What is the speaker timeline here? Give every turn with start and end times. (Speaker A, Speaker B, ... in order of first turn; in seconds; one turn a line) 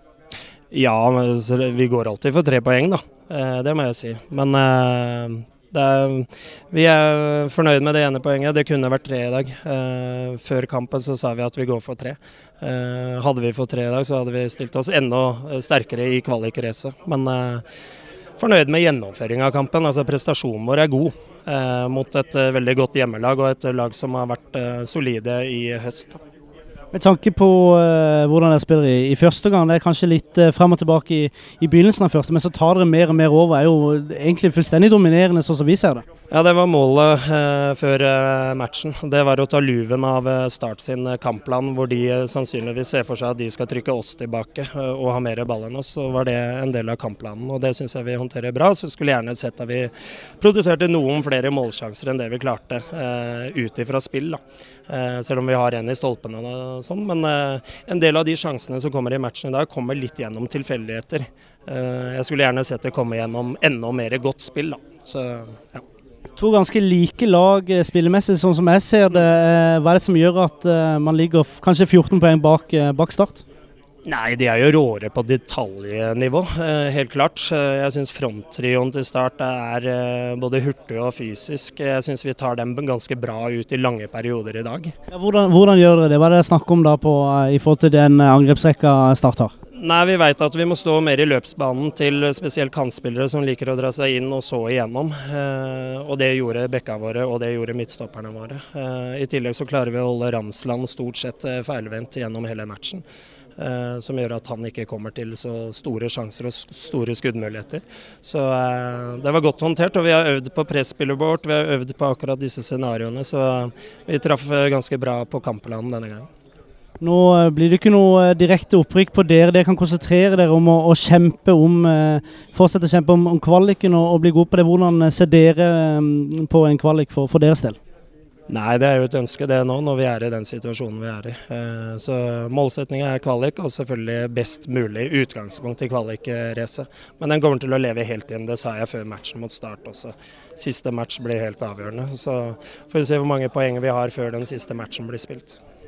Speaker A: 0.7-17.6
Speaker A: 18.4-26.2
Speaker B: 26.9-36.0
Speaker A: 36.3-65.8
Speaker B: 66.4-73.4
Speaker A: 74.1-85.0
Speaker B: 85.1-89.5
Speaker A: 89.8-103.0
Speaker A: 103.6-116.3
Speaker B: 117.0-127.8
Speaker A: 128.5-145.6